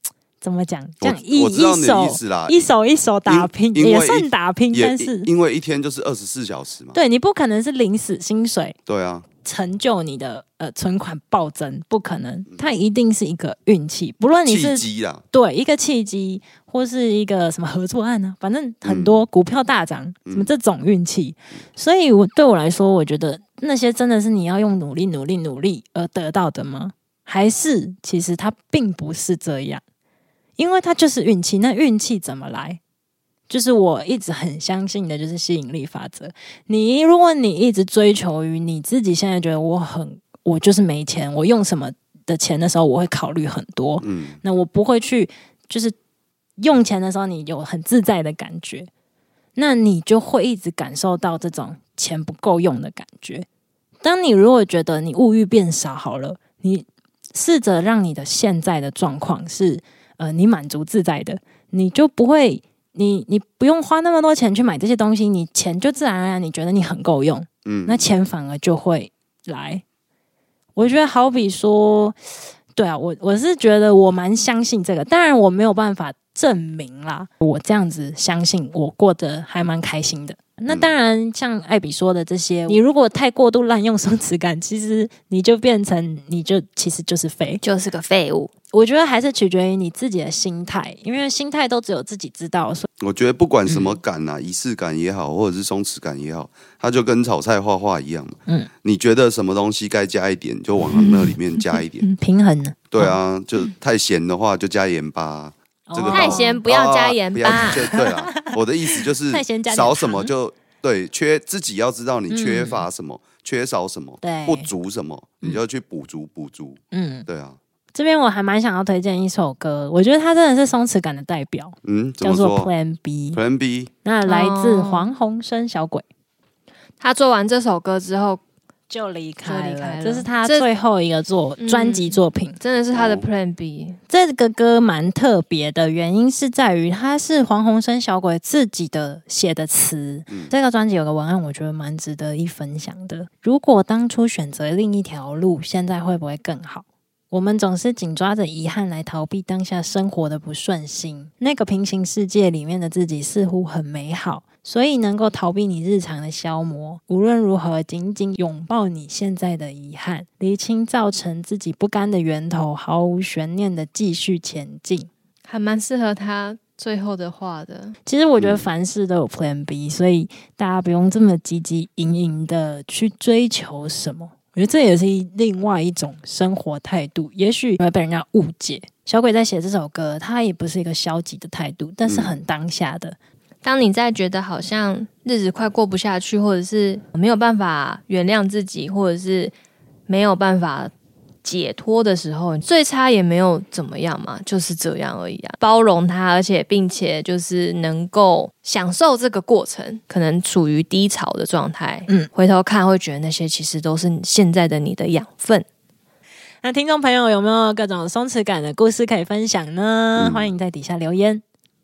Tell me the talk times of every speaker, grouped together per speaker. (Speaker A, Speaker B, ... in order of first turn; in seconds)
Speaker A: 0.4-5.3, 6.9-8.8, 9.4-29.8, 30.6-32.8, 33.5-46.0, 46.6-48.9, 49.6-53.5, 54.0-69.8, 70.8-72.2, 72.7-87.6, 88.7-92.9, 93.7-94.0, 100.9-103.2, 105.9-106.6, 107.5-110.3, 112.3-112.9, 114.2-114.7, 116.9-117.3, 117.9-123.4, 124.0-126.0, 128.9-132.6, 134.1-165.1, 168.1-183.2, 206.6-211.4
Speaker B: 1.0-2.7, 3.3-7.0, 8.9-9.3, 14.5-15.2, 18.8-19.3, 20.3-20.5, 44.0-44.4, 67.7-68.1, 93.0-102.1, 102.9-117.6, 121.8-122.7, 123.3-123.9, 132.9-133.3, 168.4-168.7, 182.1-182.4, 210.2-210.5
Speaker C: 87.6-88.5, 106.1-107.9, 124.2-125.1, 127.0-128.4, 129.4-130.7, 131.6-134.0, 165.5-168.0, 183.6-189.5, 190.1-190.9, 191.4-205.7